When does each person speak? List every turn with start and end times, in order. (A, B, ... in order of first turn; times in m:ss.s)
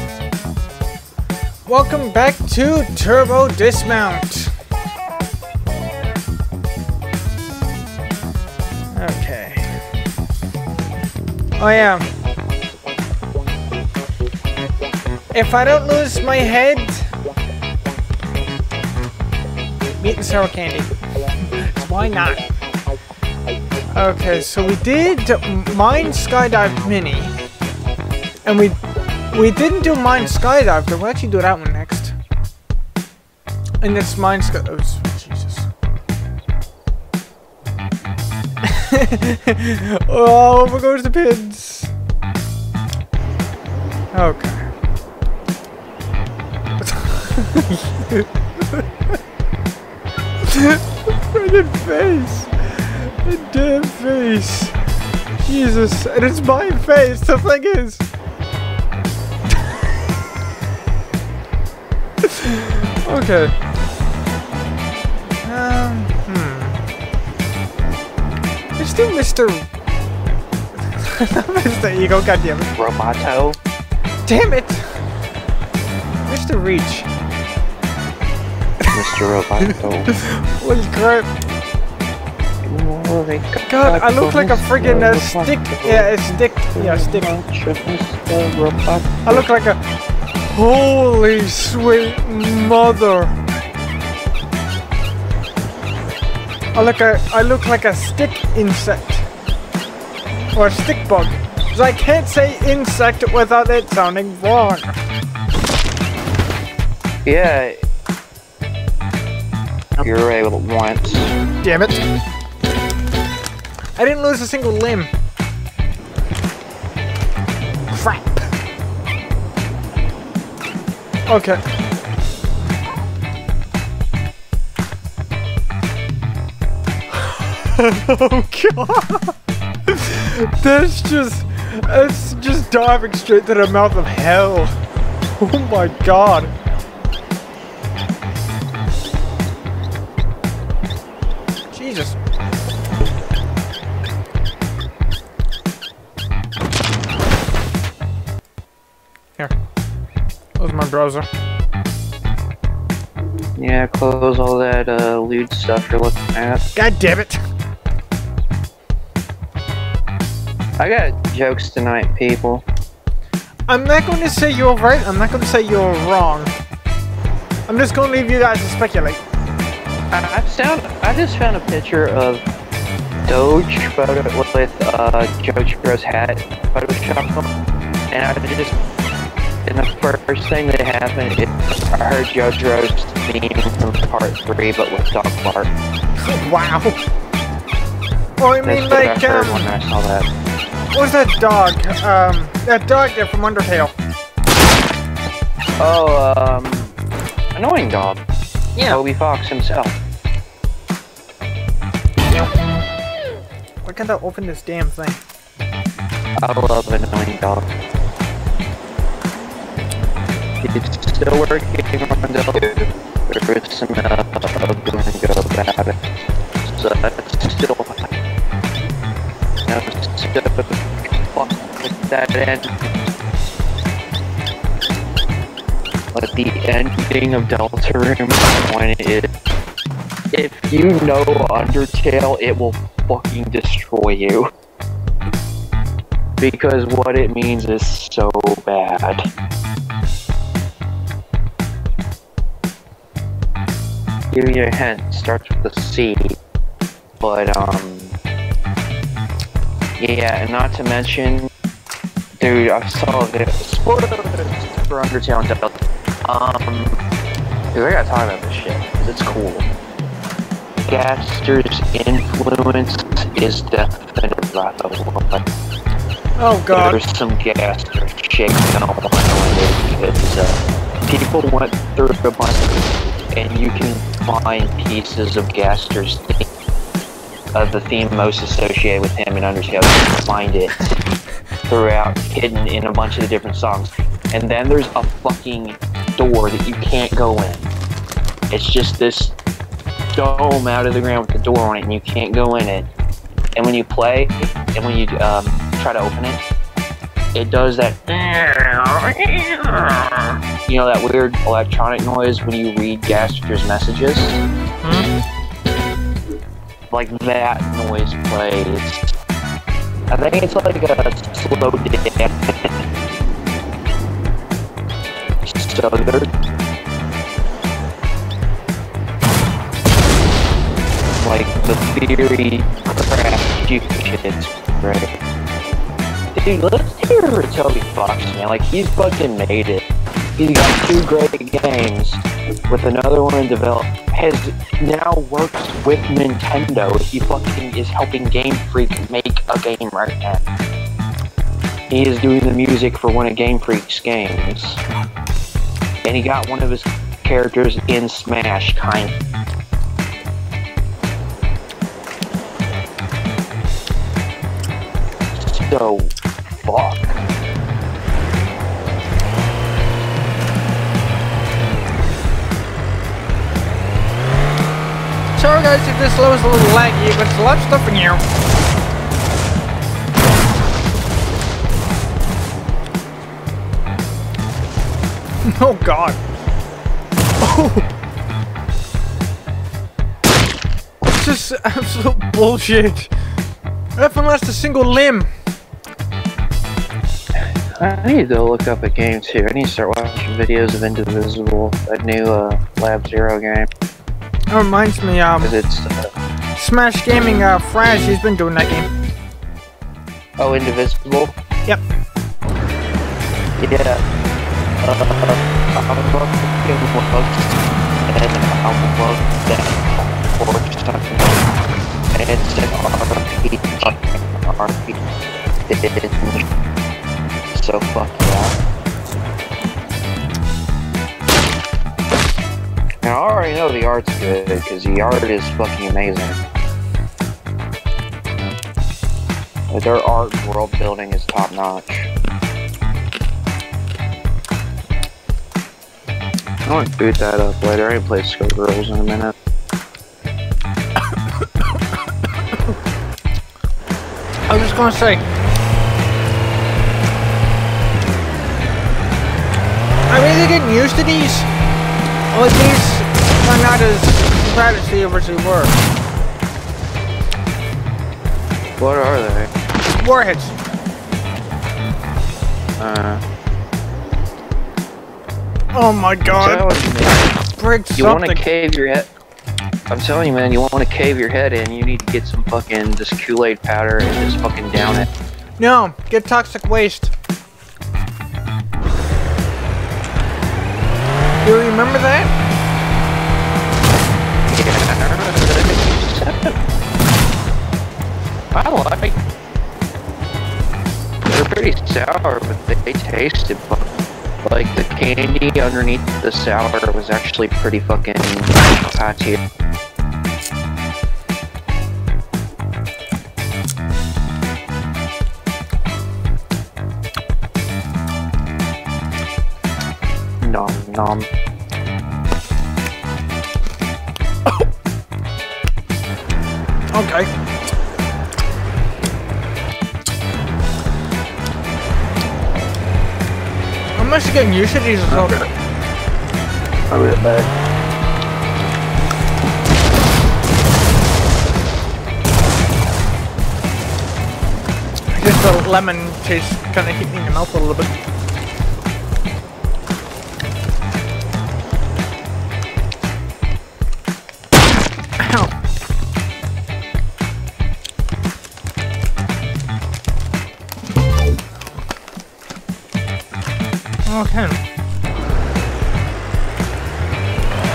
0:01.7-0:04.5 A
0:08.9-0:09.7 A
0:11.6-0:12.0 A
0:15.3-0:17.1 A
0:20.0-0:20.9 A
0:21.4-0:22.5 A
0:23.9-0:27.3 A
0:28.4-0:28.8 A
0:29.3-0:32.2 A
0:33.8-0:35.7 A
0:38.6-0:41.9 A
0:44.1-0:44.7 A
0:46.8-0:48.8 A
0:50.4-0:54.8 A
0:55.4-0:58.0 A
1:02.2-1:03.5 A
1:05.4-1:06.8 A
1:08.8-1:09.7 A
1:10.9-1:12.7 A
1:12.8-1:13.6 B
1:14.2-1:14.8 A
1:16.2-1:17.1 A
1:18.9-1:20.2 B
1:19.6-1:21.3 A
1:22.6-1:29.5 B
1:23.7-1:27.4 A
1:29.2-1:29.8 A
1:30.5-1:33.3 A
1:36.7-1:39.2 A
1:40.5-1:44.9 A
1:47.2-1:47.7 B
1:50.0-1:51.3 B
1:51.6-1:52.0 A
1:54.0-1:55.1 A
1:57.9-1:58.5 A
2:01.3-2:01.6 A
2:07.1-2:09.3 A
2:09.9-2:14.7 A
2:15.3-2:16.5 A
2:21.7-2:22.2 A
2:30.6-2:31.3 A
2:33.6-2:36.6 B
2:36.8-2:37.4 A
2:40.8-2:42.6 B
2:43.7-2:46.5 A
2:47.7-2:49.2 A
2:50.1-2:52.4 B
2:53.3-2:57.5 B
2:58.1-2:58.8 B
2:59.7-3:05.7 B
3:06.2-3:07.0 A
3:08.4-3:09.7 A
3:08.6-3:10.3 B
3:10.9-3:13.9 A
3:15.8-3:17.0 B
3:17.6-3:18.2 B
3:18.8-3:20.0 B
3:23.8-3:25.2 A
3:26.4-3:27.7 B
3:30.6-3:36.0 B
3:36.6-3:38.1 B
3:39.6-3:42.9 B
3:46.1-3:49.3 B
3:50.3-3:54.5 B
3:56.4-3:59.2 B
4:04.3-4:06.4 B
4:07.2-4:08.2 B
4:10.0-4:11.5 B
4:12.4-4:17.0 B
4:17.7-4:19.7 B
4:20.9-4:25.4 B
4:26.4-4:27.0 A
4:26.7-4:32.7 B
4:33.3-4:36.4 B
4:37.5-4:41.0 B
4:41.7-4:47.7 B
4:48.5-4:49.4 B
4:50.1-4:52.9 B
4:53.6-4:56.4 B
4:57.3-5:04.4 B
5:04.8-5:05.1 A
5:06.9-5:09.1 B
5:10.1-5:12.8 B
5:15.4-5:16.3 B
5:21.2-5:25.1 B
5:26.3-5:29.8 B
5:30.4-5:40.4 B
5:41.9-5:44.8 B
5:46.0-5:49.2 B
5:55.3-5:56.1 B
5:56.6-5:57.1 B
6:05.3-6:08.2 A
6:15.4-6:16.2 A
6:17.4-6:17.9 A
6:21.0-6:23.1 A
6:24.0-6:25.3 A
6:27.4-6:33.7 B
6:34.5-6:35.6 A
6:35.4-6:36.1 B
6:36.6-6:38.9 A
6:40.4-6:41.3 B
6:43.6-6:44.0 B
6:44.8-6:47.5 B
6:48.1-6:51.4 B
6:52.1-6:55.0 B
6:55.7-6:56.4 B
6:57.5-6:58.6 B
7:03.0-7:06.4 B
7:09.7-7:12.1 B
7:16.6-7:19.3 B
7:21.2-7:21.8 A
7:24.5-7:25.2 A
7:30.1-7:31.5 A
7:32.3-7:35.8 A
7:38.8-7:39.5 B
7:39.9-7:40.6 A
7:42.8-7:43.2 B
7:45.7-7:46.7 A
7:46.2-7:47.4 B
7:47.6-7:48.4 A
7:47.9-7:49.1 B
7:49.9-7:55.1 B
7:55.6-7:57.1 A
8:01.4-8:02.3 A
8:04.5-8:06.6 B
8:08.5-8:09.2 B
8:11.2-8:13.9 B
8:14.4-8:19.4 B
8:30.4-8:31.3 B
8:36.9-8:37.3 A
8:44.0-8:45.4 A
8:46.9-8:47.4 B
8:55.1-8:57.9 A
9:05.2-9:05.6 A
9:14.1-9:14.6 A